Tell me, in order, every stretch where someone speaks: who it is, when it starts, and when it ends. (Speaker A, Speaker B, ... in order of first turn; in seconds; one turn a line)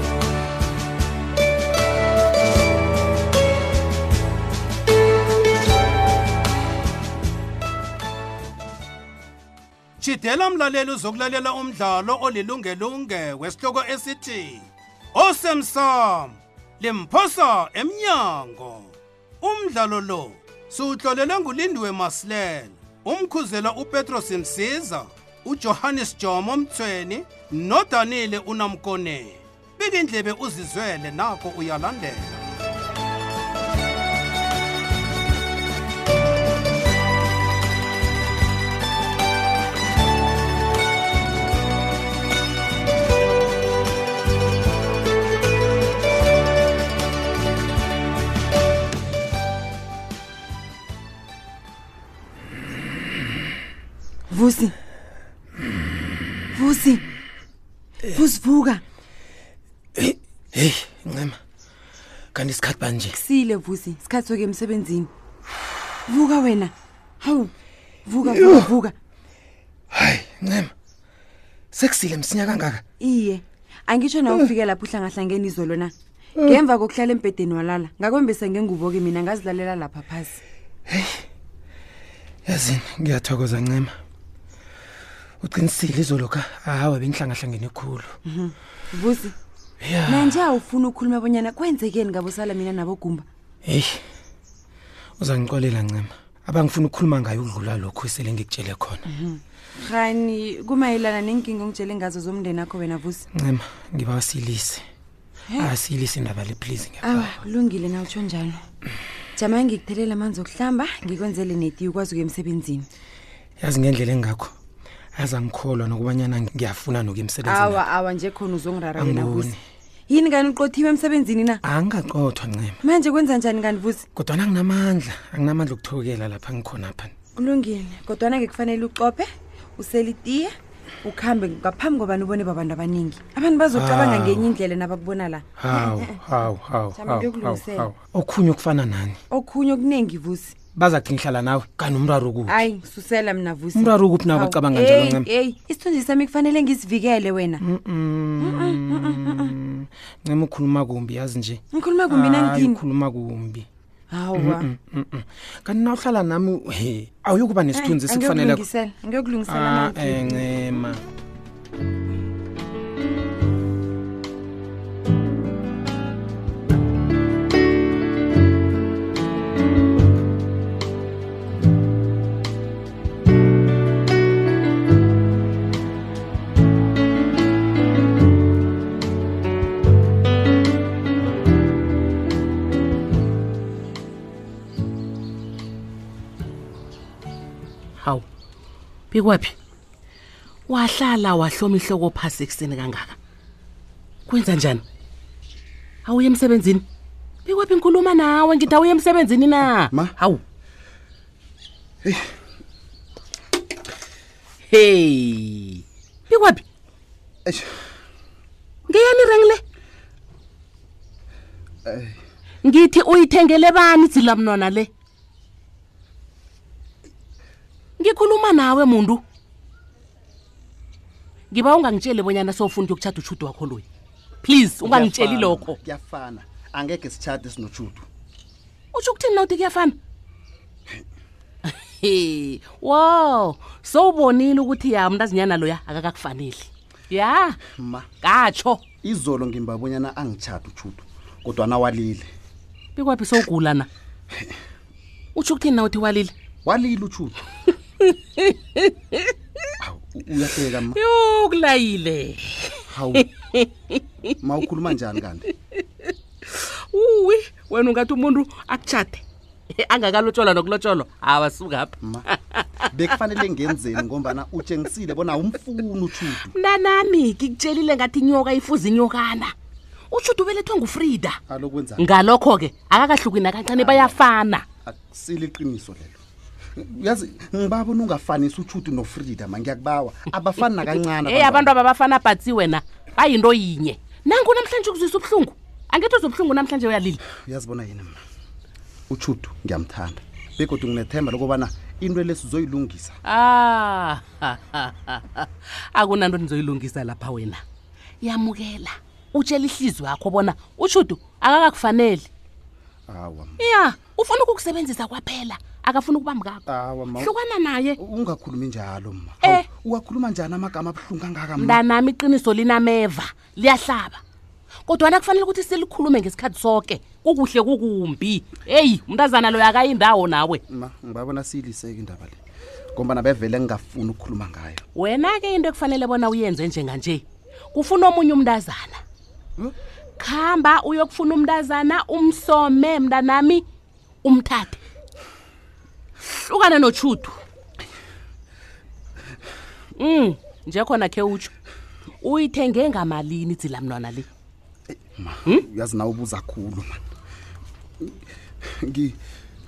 Speaker A: 10.0-32.4
Speaker B: 54.3-54.7
Speaker B: 56.5-57.0
Speaker B: 58.1-58.8
Speaker C: 60.0-61.4
Speaker C: 62.3-63.1
Speaker B: 63.1-65.1
Speaker B: 66.1-67.5
Speaker B: 68.0-68.9
Speaker C: 68.3-68.7
Speaker C: 69.9-70.7
Speaker C: 71.7-72.8
Speaker B: 73.0-80.4
Speaker C: 80.9-81.1
Speaker C: 82.5-83.9
Speaker C: 85.4-88.1
Speaker B: 88.3-89.3
Speaker C: 89.8-90.4
Speaker B: 90.0-93.2
Speaker C: 93.7-94.0
Speaker C: 95.2-99.0
Speaker B: 99.1-103.2
Speaker C: 103.4-104.8
Speaker C: 105.6-107.3
Speaker B: 107.0-108.6
Speaker B: 109.3-112.8
Speaker C: 113.6-114.5
Speaker C: 115.2-117.8
Speaker B: 117.4-119.5
Speaker C: 119.0-119.6
Speaker B: 120.1-121.6
Speaker C: 121.6-122.8
Speaker B: 122.8-124.0
Speaker C: 124.1-127.1
Speaker B: 127.3-136.2
Speaker C: 133.7-134.5
Speaker C: 135.6-139.2
Speaker B: 136.9-137.9
Speaker B: 139.3-140.5
Speaker C: 140.8-142.7
Speaker B: 142.5-147.6
Speaker C: 143.8-145.3
Speaker C: 147.6-153.7
Speaker B: 148.4-149.5
Speaker B: 151.7-152.8
Speaker B: 154.1-154.7
Speaker C: 154.4-158.6
Speaker B: 157.7-160.4
Speaker C: 159.4-161.0
Speaker D: 189.1-189.5
Speaker D: 190.7-193.1
Speaker D: 194.3-194.8
Speaker D: 196.1-196.8
Speaker D: 197.4-200.4
Speaker D: 204.7-206.6
Speaker E: 207.4-207.7
Speaker D: 208.9-209.6
Speaker E: 211.8-212.2
Speaker D: 212.6-214.9
Speaker D: 218.0-219.2
Speaker D: 221.5-223.8
Speaker D: 224.4-225.8
Speaker E: 224.8-228.1
Speaker D: 228.9-230.0
Speaker D: 231.7-237.6
Speaker E: 237.6-238.1
Speaker D: 238.2-238.8
Speaker E: 239.0-242.3
Speaker D: 242.9-243.9
Speaker D: 245.3-246.3
Speaker E: 246.6-247.4
Speaker D: 248.0-249.3
Speaker E: 249.8-251.0
Speaker D: 250.9-254.0
Speaker E: 252.9-253.2
Speaker E: 254.4-255.4
Speaker D: 255.7-259.2
Speaker D: 259.7-263.2
Speaker E: 262.9-266.5
Speaker D: 266.2-269.5
Speaker D: 270.1-271.4
Speaker E: 271.5-272.1
Speaker D: 272.0-274.6
Speaker E: 273.7-274.2
Speaker E: 274.9-276.2
Speaker E: 276.8-281.7
Speaker D: 280.6-287.2
Speaker E: 287.3-288.2
Speaker E: 289.1-293.1
Speaker D: 293.2-297.6
Speaker D: 298.2-302.3
Speaker E: 303.1-303.6
Speaker D: 303.6-306.6
Speaker E: 306.7-307.3
Speaker D: 307.1-308.0
Speaker E: 308.0-311.8
Speaker D: 311.6-314.2
Speaker D: 314.9-320.6
Speaker E: 320.7-322.4
Speaker E: 322.9-324.8
Speaker D: 324.9-329.0
Speaker D: 330.2-333.6
Speaker D: 334.2-334.8
Speaker D: 336.2-337.4
Speaker D: 340.0-341.5
Speaker D: 342.2-344.2
Speaker E: 344.9-347.0
Speaker E: 348.0-349.2